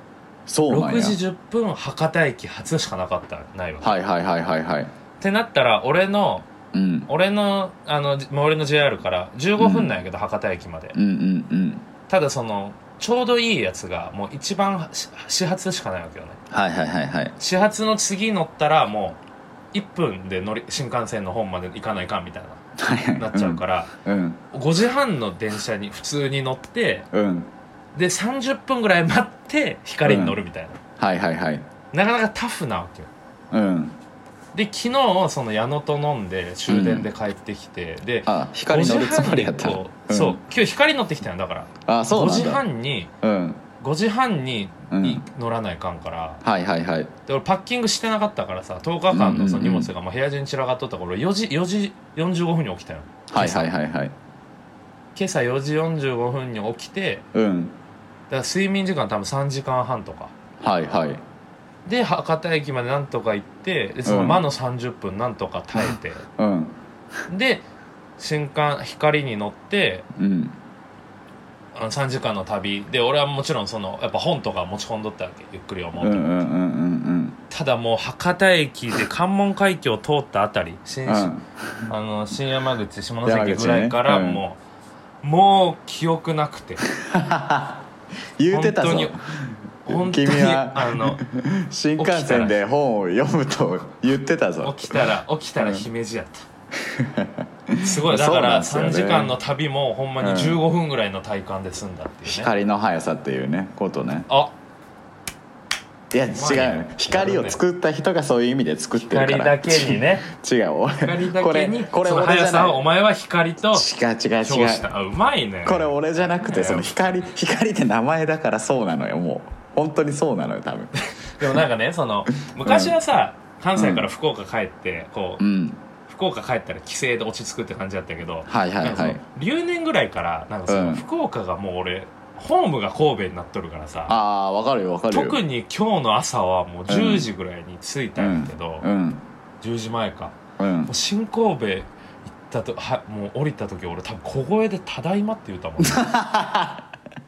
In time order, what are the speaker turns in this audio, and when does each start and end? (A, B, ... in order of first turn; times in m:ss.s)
0:00.5-0:01.2 A
0:00.7-0:04.0 B
0:03.8-0:04.9 A
0:05.2-0:06.5 B
0:06.7-0:07.1 A
0:07.1-0:11.0 B
0:09.6-0:09.9 A
0:10.9-0:11.8 A
0:12.1-0:16.4 B
0:16.5-0:17.3 A
0:17.4-0:19.2 B
0:19.7-0:22.6 B
0:22.8-0:24.4 A
0:23.2-0:23.9 B
0:24.5-0:27.1 B
0:27.1-0:27.5 A
0:27.9-0:30.8 B
0:30.0-0:30.4 A
0:31.0-0:31.6 A
0:31.9-0:33.1 B
0:33.5-0:34.0 A
0:34.5-0:43.1 B
0:36.7-0:37.1 A
0:38.2-0:40.4 A
0:41.8-0:42.6 A
0:43.2-0:43.6 A
0:43.8-0:46.4 B
0:44.9-0:45.2 A
0:46.4-0:47.1 A
0:47.3-0:53.7 B
0:49.1-0:49.9 A
0:53.3-0:54.1 A
0:55.1-0:57.2 B
0:57.3-0:57.8 A
0:58.3-1:00.3 B
1:00.6-1:01.2 A
1:01.8-1:06.2 B
1:04.0-1:04.4 A
1:05.8-1:06.8 A
1:07.3-1:07.6 B
1:08.2-1:10.0 B
1:10.1-1:10.6 A
1:11.7-1:16.3 B
1:16.0-1:17.4 A
1:17.5-1:21.3 B
1:21.0-1:21.8 A
1:21.9-1:24.6 B
1:23.2-1:24.4 A
1:25.2-1:26.8 B
1:26.9-1:27.8 A
1:28.4-1:35.0 A
1:28.5-1:29.1 B
1:29.8-1:31.2 B
1:32.0-1:32.6 B
1:34.6-1:36.5 B
1:36.8-1:39.4 A
1:37.8-1:42.5 B
1:40.2-1:40.6 A
1:42.2-1:44.3 A
1:44.3-1:44.5 B
1:46.1-1:52.8 A
1:46.3-1:47.6 B
1:49.0-1:50.3 B
1:51.0-1:53.9 B
1:53.7-1:54.9 A
1:54.4-1:57.3 B
1:55.6-2:01.5 A
2:01.2-2:05.4 B
2:02.6-2:02.9 A
2:03.8-2:04.1 A
2:05.4-2:05.8 A
2:06.1-2:14.1 B
2:08.5-2:09.2 A
2:10.7-2:11.0 A
2:14.1-2:15.4 A
2:15.1-2:18.8 B
2:16.9-2:17.3 A
2:18.2-2:19.2 A
2:19.6-2:20.4 B
2:20.6-2:20.9 A
2:20.9-2:26.1 B
2:25.8-2:26.8 A